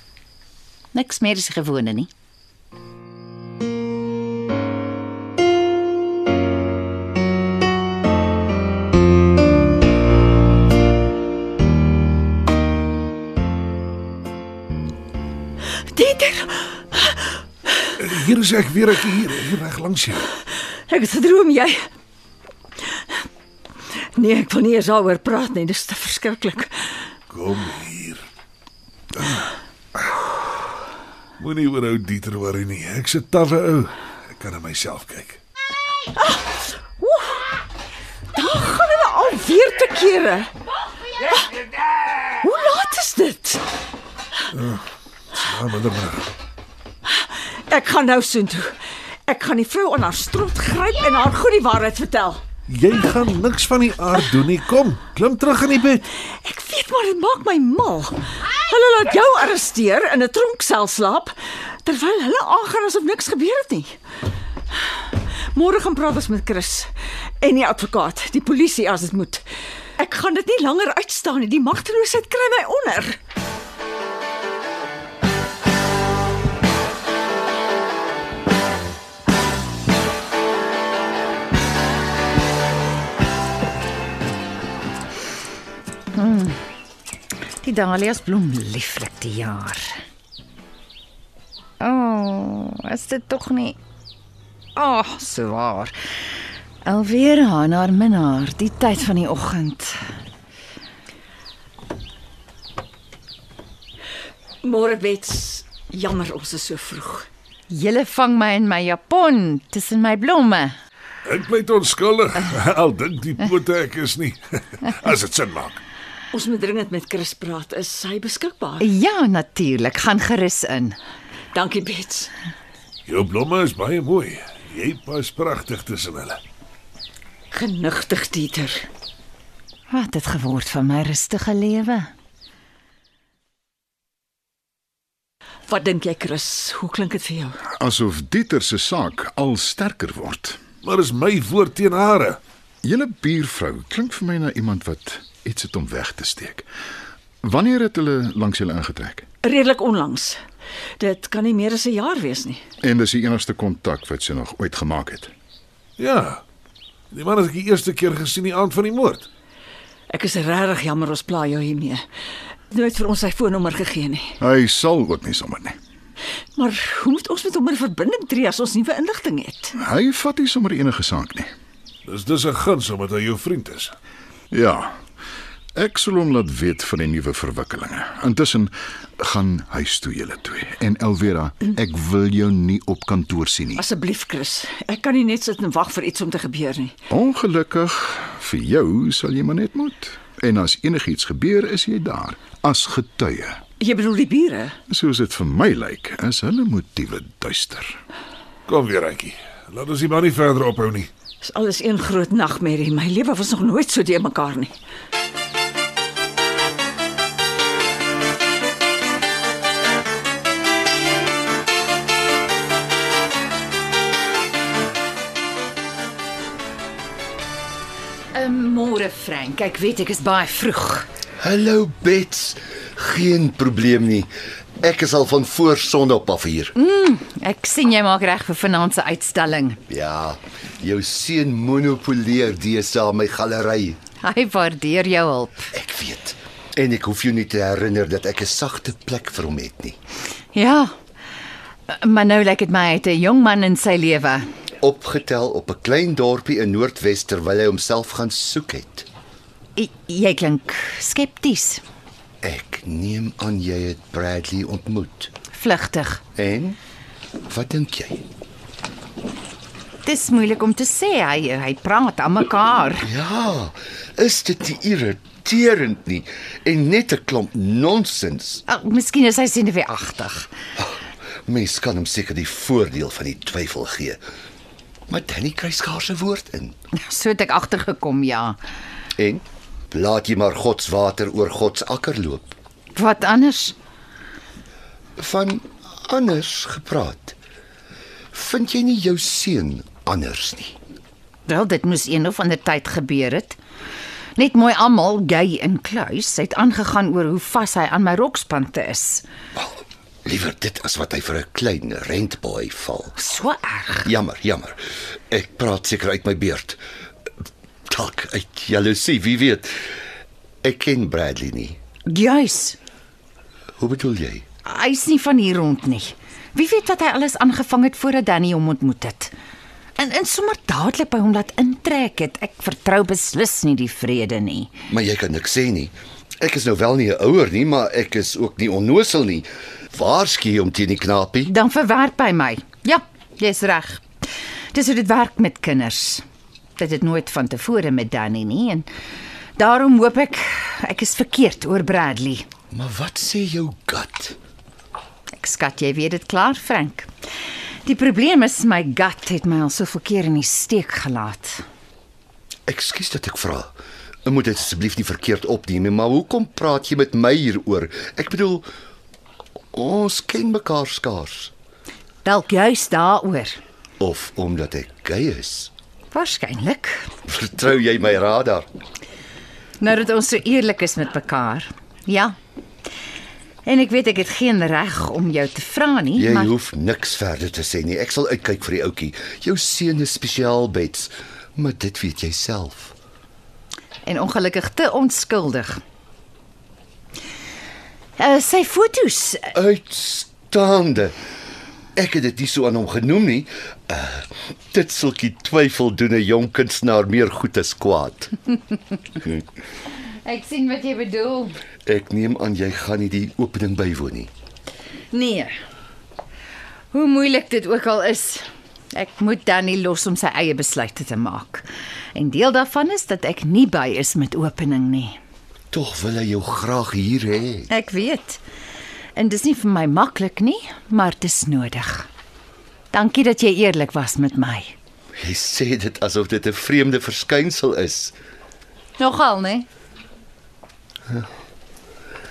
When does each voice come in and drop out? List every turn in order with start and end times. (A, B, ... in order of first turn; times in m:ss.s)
0:00.9-0:02.1 A
0:15.8-0:17.3 B
0:18.0-0:20.3 C
0:20.9-0:21.9 B
0:24.2-0:26.9 B
0:27.3-0:28.2 C
0:29.1-0:30.1 C
0:31.4-0:35.4 C
0:36.2-0:37.6 B
0:38.3-0:40.5 B
0:42.3-0:43.6 B
0:44.5-0:46.3 C
0:47.1-0:48.8 B
0:49.3-0:52.4 B
0:52.7-0:56.0 C
0:56.3-1:04.0 B
1:05.1-1:09.4 B
1:10.0-1:13.2 B
1:26.2-1:26.6 A
1:27.6-1:30.0 A
1:31.8-1:33.8 A
1:34.8-1:36.0 A
1:36.8-1:40.0 A
1:44.6-1:47.3 B
1:47.7-1:50.7 A
1:51.3-1:55.8 C
1:56.3-1:58.9 B
1:58.8-2:01.0 A
2:01.5-2:02.3 B
2:03.1-2:06.4 C
2:07.5-2:08.9 B
2:09.9-2:12.1 A
2:15.7-2:17.6 B
2:17.8-2:20.6 D
2:20.8-2:22.4 C
2:22.8-2:26.7 D
2:27.4-2:29.3 D
2:29.4-2:30.4 B
2:31.0-2:32.6 B
2:32.8-2:35.3 D
2:36.0-2:36.4 C
2:37.1-2:39.3 C
2:40.1-2:42.0 B
2:42.7-2:44.4 B
2:44.4-2:45.8 D
2:46.6-2:49.8 B
2:49.8-2:51.5 D
2:52.1-2:54.0 C
2:54.5-2:55.0 D
2:55.8-3:03.8 D
3:03.8-3:06.9 B
3:07.1-3:13.6 D
3:13.8-3:14.8 B
3:14.9-3:18.0 D
3:18.7-3:21.1 C
3:21.4-3:24.8 B
3:38.3-3:41.1 A
3:41.4-3:46.7 E
3:46.8-3:49.8 A
3:49.9-3:54.0 E
3:54.2-3:55.7 A
3:55.7-4:00.0 E
4:00.5-4:00.9 A
4:01.9-4:04.4 A
4:04.8-4:09.1 E
4:09.8-4:11.8 A
4:12.4-4:15.3 E
4:15.5-4:16.2 A
4:16.4-4:16.8 E
4:17.5-4:18.2 E
4:20.0-4:23.1 A
4:23.0-4:28.6 E
4:28.7-4:30.5 A
4:30.8-4:34.2 E
4:35.1-4:36.8 E
4:36.9-4:38.6 A
4:39.2-4:42.6 E
4:43.0-4:43.8 A
4:45.2-4:47.4 E
4:48.3-4:50.8 E
4:51.5-4:53.6 A
4:54.4-4:59.3 A
4:59.6-5:03.2 E
5:03.2-5:04.1 A
5:04.0-5:06.8 E
5:07.9-5:09.7 E
5:10.6-5:11.8 E
5:12.1-5:12.8 A
5:13.8-5:14.5 E
5:14.6-5:19.3 A
5:20.0-5:24.7 A
5:24.9-5:31.5 E
5:31.5-5:34.0 A
5:34.7-5:36.2 A
5:36.8-5:38.9 A
5:39.6-5:42.5 A
5:42.7-5:44.4 E
5:45.4-5:47.1 A
5:47.8-5:51.6 A
5:52.7-5:53.7 E
5:54.2-5:58.7 E
5:59.7-6:01.5 E
6:02.2-6:03.6 A
6:04.0-6:05.7 E
6:06.1-6:07.1 A
6:07.3-6:08.7 E
6:09.8-6:12.4 A
6:13.6-6:16.5 A
6:16.2-6:22.9 E
6:24.0-6:25.8 A
6:28.2-6:29.5 A
6:29.5-6:31.2 E
6:32.0-6:38.4 E
6:40.2-6:41.6 A
6:41.9-6:44.3 E
6:45.1-6:45.5 A
6:46.9-6:55.2 A
6:55.7-6:57.7 E
6:57.7-6:58.4 A
6:59.2-7:02.1 A
7:02.9-7:04.7 A
7:05.2-7:08.2 E
7:09.0-7:09.7 A